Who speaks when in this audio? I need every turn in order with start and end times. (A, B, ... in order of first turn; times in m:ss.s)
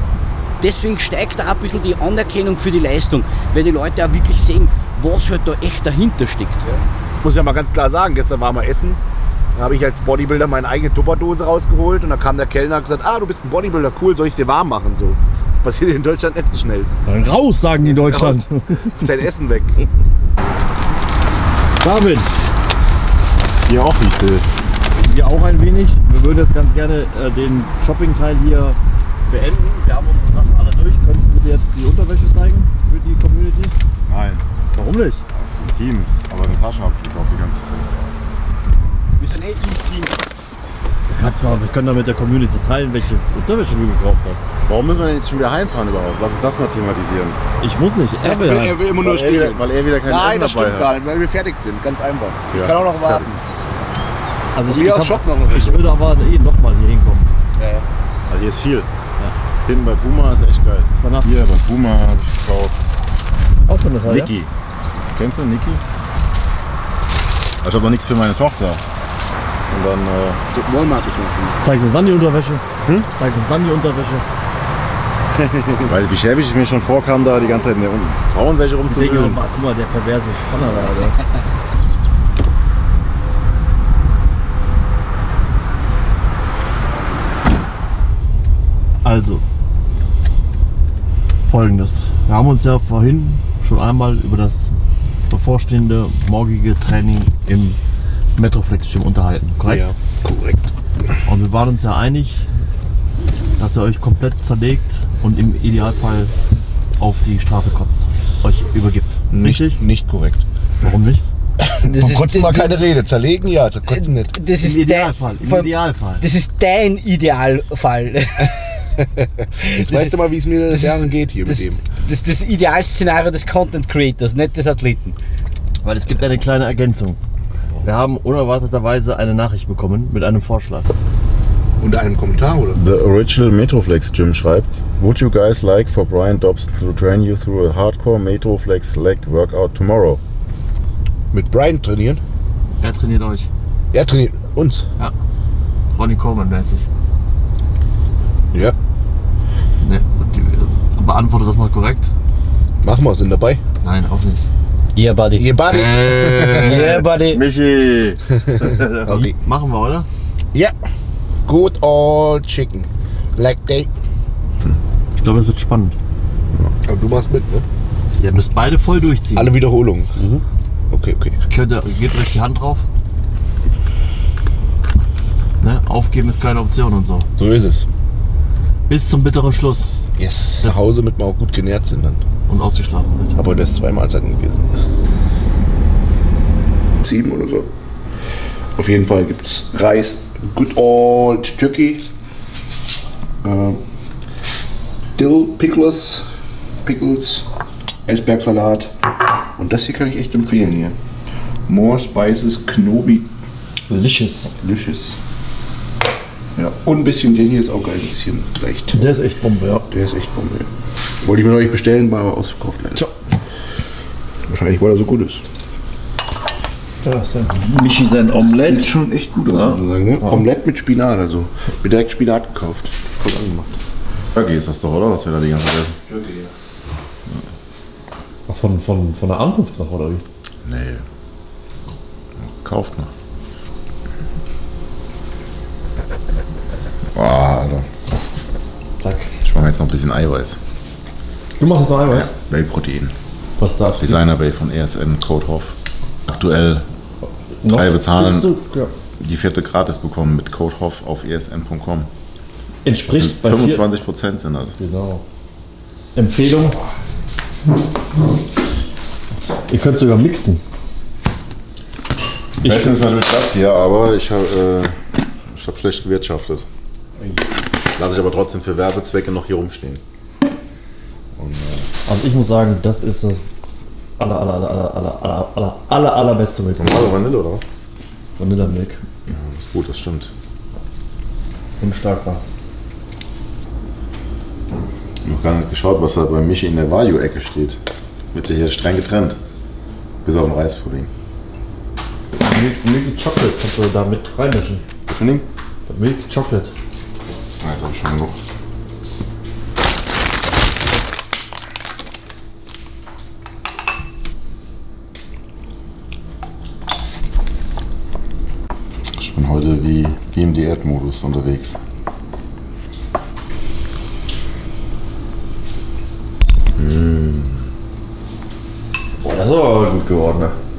0:00.6-0:06.7 A
0:06.7-0:09.0 B
0:09.5-0:16.9 B
0:17.1-0:19.0 C
0:17.9-0:18.4 B
0:19.0-0:19.8 B
0:21.8-0:22.3 C
0:23.7-0:24.5 D
0:25.0-0:28.8 C
0:29.3-0:33.8 C
0:34.1-0:34.4 D
0:34.7-0:35.2 C
0:35.3-0:38.0 D
0:39.2-0:40.2 A
0:41.1-0:44.4 C
0:44.6-0:47.4 D
0:47.6-0:48.8 C
0:48.2-0:53.4 B
0:49.0-0:50.9 D
0:52.5-0:53.3 D
0:54.5-0:57.3 C
0:54.7-0:55.9 B
0:57.5-0:57.9 B
0:58.3-0:58.9 D
0:59.6-1:02.8 D
1:01.0-1:01.3 C
1:03.7-1:04.3 C
1:04.0-1:04.5 D
1:05.1-1:05.8 D
1:07.6-1:08.8 D
1:09.7-1:10.4 D
1:10.5-1:11.6 B
1:11.6-1:14.2 C
1:15.3-1:15.9 B
1:15.9-1:19.4 D
1:18.9-1:21.2 C
1:29.0-1:29.4 C
1:31.5-1:34.7 C
1:35.3-1:37.8 C
1:38.4-1:39.8 C
1:39.6-1:40.7 B
1:41.2-1:42.4 C
1:43.6-1:46.3 C
1:47.0-1:49.8 C
1:49.3-1:50.4 B
1:50.8-1:51.2 C
1:51.6-1:54.3 B
1:51.8-1:52.8 A
1:53.9-1:58.6 A
1:54.6-1:56.2 C
1:59.6-2:01.8 B
1:59.6-2:00.2 A
2:01.4-2:05.2 A
2:05.8-2:07.2 C
2:07.8-2:10.9 C
2:11.8-2:12.8 B
2:12.7-2:20.2 D
2:21.3-2:22.2 B
2:22.8-2:23.5 C
2:23.9-2:24.8 B
2:26.0-2:26.8 C
2:29.8-2:32.1 C
2:32.8-2:33.6 B
2:33.8-2:34.5 C
2:35.0-2:35.6 A
2:35.4-2:36.9 B
2:35.7-2:40.1 C
2:36.6-2:37.4 A
2:38.4-2:39.3 B
2:41.4-2:43.9 B
2:45.2-2:46.0 C
2:46.8-2:47.6 B
2:48.2-2:49.5 C
2:49.3-2:50.2 B
2:50.2-2:50.4 A
2:50.9-2:51.4 B
2:51.5-2:52.8 C
2:55.6-2:57.3 C
2:57.4-2:57.8 B
2:58.9-2:59.9 C
3:00.2-3:02.2 B
3:02.5-3:03.4 C
3:03.4-3:04.8 B
3:07.0-3:07.7 B
3:08.8-3:12.0 B
3:13.4-3:13.8 B
3:15.2-3:16.2 B
3:16.8-3:17.4 B
3:18.1-3:18.9 B
3:19.6-3:21.0 B
3:21.7-3:23.3 B
3:23.9-3:24.6 C
3:24.6-3:25.2 B
3:26.6-3:29.0 B
3:28.9-3:29.9 C
3:29.9-3:30.7 B
3:31.2-3:33.1 B
3:34.5-3:35.4 B
3:37.0-3:38.9 C
3:38.4-3:43.7 B
3:39.5-3:40.4 C
3:44.3-3:46.0 D
3:46.1-3:46.5 B
3:48.5-3:50.2 C
3:50.6-3:51.0 D
3:52.4-3:53.1 D
3:57.1-3:57.8 D
3:59.0-3:59.3 C
3:59.4-4:00.6 D
4:01.6-4:02.3 C
4:02.1-4:03.1 D
4:03.6-4:04.2 C
4:04.0-4:06.8 D
4:07.6-4:08.9 C
4:07.7-4:08.5 D
4:09.2-4:12.1 D
4:12.8-4:13.8 C
4:13.0-4:14.8 D
4:14.7-4:15.2 C
4:16.2-4:16.8 C
4:19.7-4:20.6 C
4:22.6-4:25.0 D
4:22.6-4:22.9 C
4:25.5-4:26.7 D
4:27.9-4:30.0 D
4:31.4-4:31.8 D
4:32.1-4:33.4 C
4:34.2-4:37.2 C
4:36.8-4:37.7 D
4:38.4-4:39.0 C
4:39.3-4:40.3 D
4:41.8-4:42.4 C
4:45.2-4:47.8 D
4:48.3-4:49.4 D
4:50.2-4:51.1 D
4:52.4-4:54.8 C
4:55.1-4:55.5 D
4:55.9-4:56.7 C
4:57.6-4:58.4 D
5:09.1-5:11.8 D
5:16.8-5:17.7 D
5:19.2-5:20.6 C